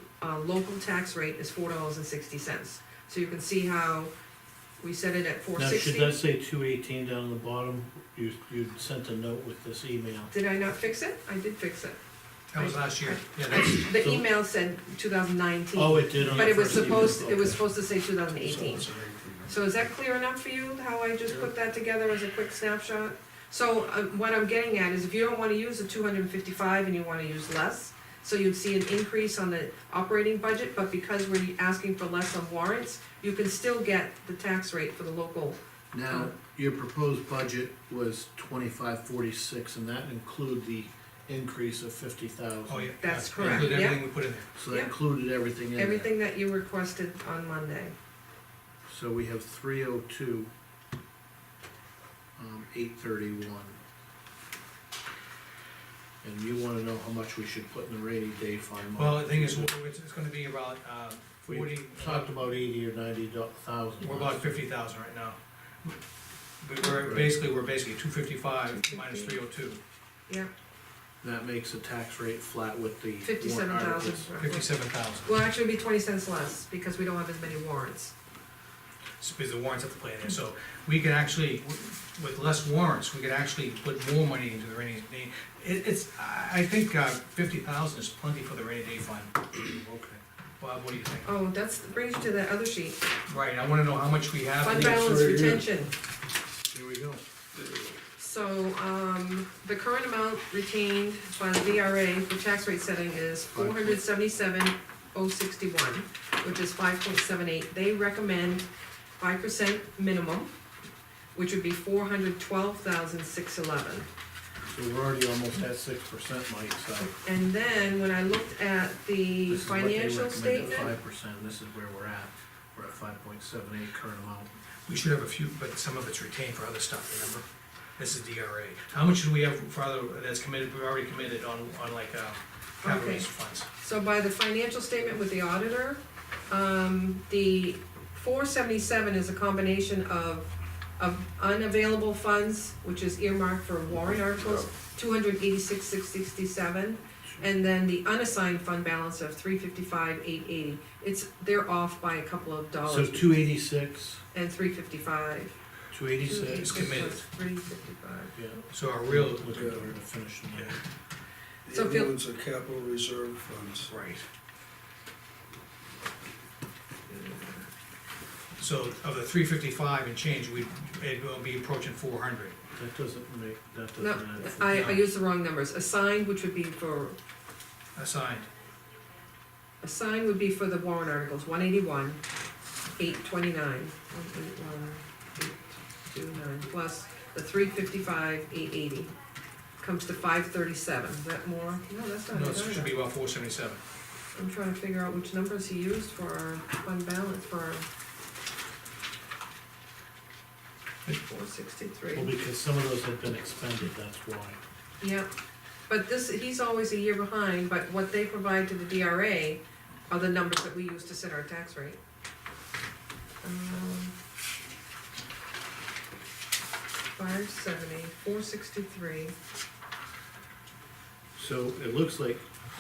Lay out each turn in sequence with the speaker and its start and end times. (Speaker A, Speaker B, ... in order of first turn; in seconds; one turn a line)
Speaker A: 0.2-4.1
Speaker A: 4.8-6.2
Speaker B: 5.6-10.3
Speaker A: 10.3-12.0
Speaker C: 12.5-13.9
Speaker A: 12.6-18.9
Speaker B: 13.9-14.3
Speaker B: 15.7-17.6
Speaker D: 18.4-19.5
Speaker A: 19.5-36.3
Speaker B: 35.9-43.7
Speaker C: 42.7-44.5
Speaker A: 43.0-44.0
Speaker B: 44.6-46.1
Speaker A: 44.7-44.9
Speaker A: 45.8-48.0
Speaker B: 48.9-50.5
Speaker B: 52.4-53.8
Speaker B: 56.2-59.7
Speaker C: 59.0-62.4
Speaker B: 61.5-64.5
Speaker C: 64.0-66.0
Speaker C: 66.6-69.8
Speaker B: 67.0-67.3
Speaker A: 68.8-69.4
Speaker B: 71.2-74.3
Speaker A: 73.2-74.7
Speaker C: 74.4-75.3
Speaker A: 75.2-78.1
Speaker C: 79.2-89.5
Speaker B: 89.6-90.2
Speaker C: 90.6-91.3
Speaker A: 91.2-93.0
Speaker C: 93.3-95.1
Speaker A: 94.6-95.9
Speaker D: 94.7-95.6
Speaker B: 96.7-97.2
Speaker A: 98.2-108.7
Speaker B: 103.5-104.0
Speaker A: 109.2-110.5
Speaker A: 111.3-114.1
Speaker B: 114.7-117.1
Speaker A: 117.0-120.9
Speaker B: 119.5-124.5
Speaker C: 124.9-127.5
Speaker C: 128.0-133.7
Speaker A: 132.8-153.4
Speaker D: 143.9-144.7
Speaker B: 152.8-154.2
Speaker A: 154.3-155.6
Speaker B: 155.9-157.0
Speaker A: 156.2-158.3
Speaker C: 156.6-157.2
Speaker B: 158.3-160.8
Speaker C: 158.7-159.6
Speaker D: 159.5-159.9
Speaker C: 160.5-160.8
Speaker D: 161.7-163.9
Speaker A: 161.7-162.1
Speaker C: 163.9-164.3
Speaker A: 167.1-167.6
Speaker C: 168.6-172.6
Speaker B: 172.8-175.0
Speaker A: 174.0-177.2
Speaker C: 178.0-178.5
Speaker A: 179.8-182.2
Speaker A: 183.0-189.1
Speaker A: 189.8-192.9
Speaker C: 192.3-193.8
Speaker A: 194.3-197.9
Speaker A: 201.1-202.3
Speaker B: 202.1-204.6
Speaker A: 205.0-205.3
Speaker A: 205.9-212.0
Speaker A: 213.4-214.2
Speaker A: 217.2-219.3
Speaker B: 221.4-222.4